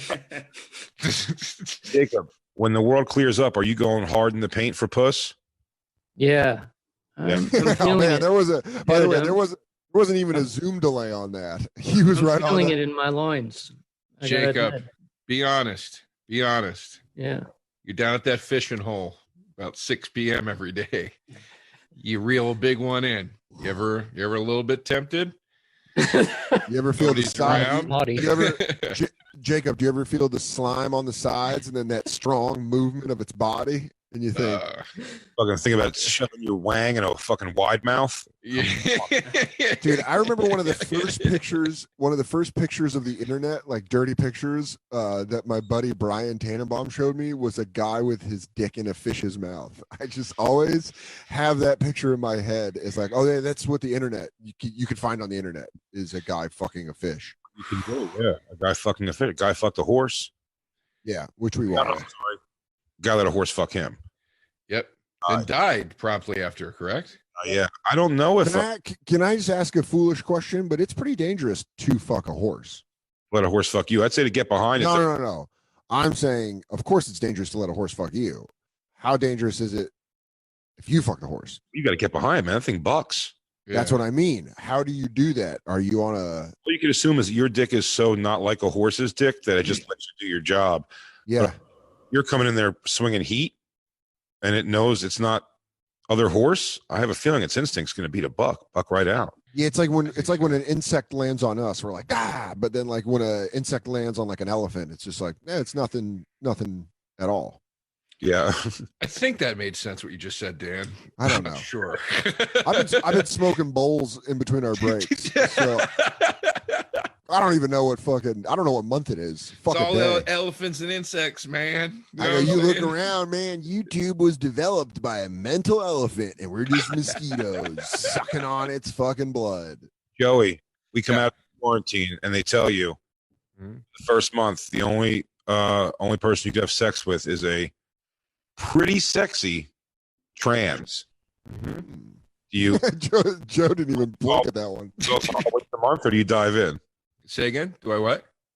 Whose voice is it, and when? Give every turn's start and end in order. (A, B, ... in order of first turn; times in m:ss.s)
0:01.0-0:01.8 A
0:01.9-0:05.3 B
0:06.2-0:08.3 C
0:07.5-0:12.8 D
0:08.8-0:09.4 C
0:12.1-0:14.8 C
0:14.2-0:17.0 A
0:17.2-0:17.5 C
0:17.8-0:21.2 A
0:22.0-0:25.4 A
0:26.0-0:26.6 C
0:26.7-0:34.6 D
0:27.0-0:29.0 A
0:27.4-0:28.4 C
0:34.3-0:34.9 A
0:35.4-0:39.1 B
0:38.4-0:41.4 A
0:39.8-0:57.4 D
0:57.6-1:00.3 B
1:01.0-1:02.0 D
1:01.7-1:02.4 B
1:03.0-1:04.0 B
1:04.7-1:07.2 A
1:07.4-1:08.6 B
1:08.4-1:12.8 D
1:13.3-1:15.0 B
1:14.8-1:19.9 D
1:20.8-1:21.6 D
1:21.7-1:23.3 B
1:23.7-1:24.0 A
1:23.7-1:26.5 D
1:26.6-1:30.9 B
1:31.3-1:31.6 D
1:32.1-1:33.5 B
1:34.4-1:35.4 B
1:36.1-1:39.3 B
1:39.5-1:47.6 D
1:40.1-1:40.5 A
1:48.2-1:48.8 B
1:49.0-1:53.3 A
1:51.2-1:51.7 D
1:52.6-1:55.9 D
1:54.8-1:56.9 A
1:57.3-2:00.3 D
1:59.7-2:03.0 A
2:02.2-2:09.9 D
2:10.2-2:13.0 B
2:13.6-2:13.8 A
2:13.9-2:17.7 B
2:18.6-2:19.7 B
2:20.4-2:21.0 B
2:21.5-2:21.8 A
2:21.8-2:25.1 D
2:22.5-2:22.8 B
2:25.0-2:26.8 B
2:27.3-2:28.2 A